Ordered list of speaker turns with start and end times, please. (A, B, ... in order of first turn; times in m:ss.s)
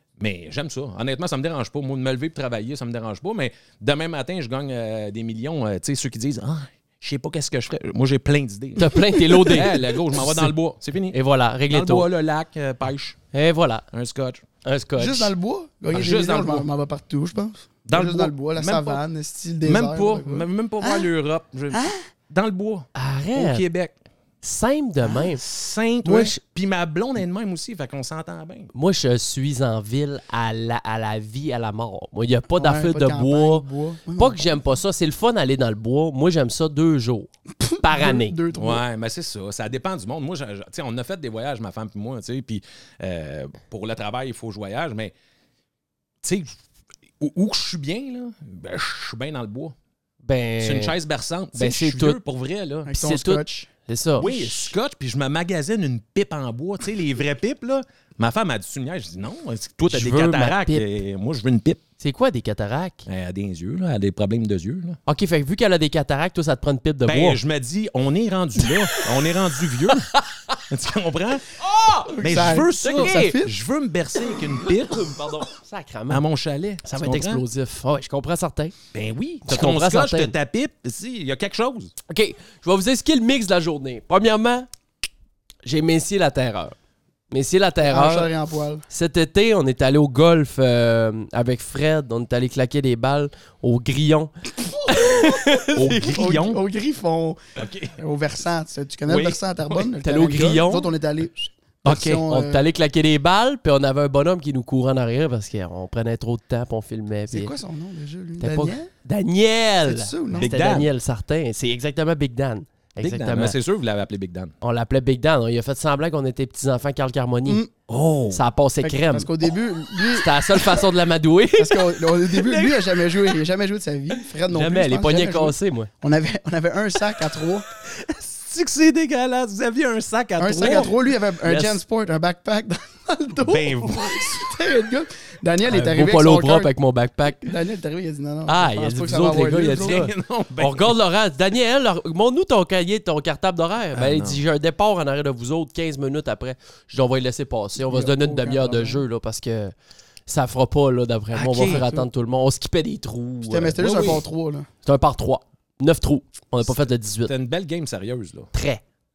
0:00.2-0:08.9 A
0:08.8-0:10.5 B
0:08.9-0:09.8 C
0:09.5-0:11.2 A
0:11.1-0:12.1 B
0:11.7-0:13.2 A
0:13.3-0:13.8 B
0:13.9-0:14.4 A
0:14.6-0:15.3 B
0:15.0-0:21.1 C
0:15.9-0:16.6 A
0:17.8-0:19.0 A
0:19.6-0:23.9 A
0:21.7-0:22.0 C
0:22.9-0:23.6 B
0:24.4-0:25.4 B
0:25.1-0:28.7 A
0:26.0-0:26.4 B
0:28.7-0:33.6 B
0:32.6-0:34.6 C
0:34.2-0:37.3 B
0:37.6-0:38.8 C
0:37.8-0:38.4 B
0:38.5-0:45.1 A
0:46.2-0:46.5 A
0:47.2-0:49.7 A
0:50.2-0:51.0 B
0:50.6-0:52.9 A
0:51.5-0:52.2 B
0:52.8-0:54.7 C
0:52.9-0:54.2 B
0:54.2-1:01.8 A
0:59.9-1:01.0 B
1:02.0-1:03.0 B
1:03.0-1:05.0 A
1:05.0-1:07.4 B
1:07.0-1:10.1 A
1:08.6-1:09.0 B
1:09.9-1:10.6 B
1:10.7-1:15.1 A
1:11.6-1:12.1 B
1:12.1-1:13.5 C
1:12.8-1:13.4 B
1:14.6-1:16.2 B
1:16.1-1:17.4 A
1:16.8-1:18.7 B
1:18.9-1:21.9 A
1:19.4-1:20.3 B
1:22.1-1:24.7 B
1:25.6-1:26.7 B
1:27.3-1:28.3 B
1:27.8-1:28.8 C
1:28.9-1:36.1 B
1:34.8-1:37.4 C
1:35.7-1:36.6 A
1:37.6-1:38.0 A
1:38.0-1:42.6 C
1:39.1-1:39.8 A
1:40.0-1:40.9 B
1:41.8-1:42.2 A
1:41.8-1:47.5 B
1:47.3-1:48.9 C
1:48.4-1:53.6 B
1:49.8-1:50.5 C
1:50.3-1:50.9 A
1:53.0-1:54.5 A
1:54.6-1:57.6 B
1:57.4-1:57.7 C
1:57.9-1:58.4 A
1:58.3-1:59.3 B
1:58.8-2:00.9 C
2:00.0-2:03.0 B
2:01.6-2:07.6 C
2:04.5-2:05.9 B
2:07.9-2:10.9 A
2:10.4-2:16.7 C
2:11.4-2:11.8 B
2:13.4-2:14.4 A
2:15.7-2:17.5 B
2:17.4-2:20.0 C
2:18.5-2:29.7 B
2:19.2-2:20.9 A
2:23.9-2:24.4 A
2:27.8-2:29.0 C
2:30.3-2:33.8 B
2:31.3-2:32.0 A
2:33.4-2:34.7 C
2:33.8-2:34.2 A
2:34.8-2:37.3 B
2:37.2-2:38.5 A
2:38.5-2:38.8 B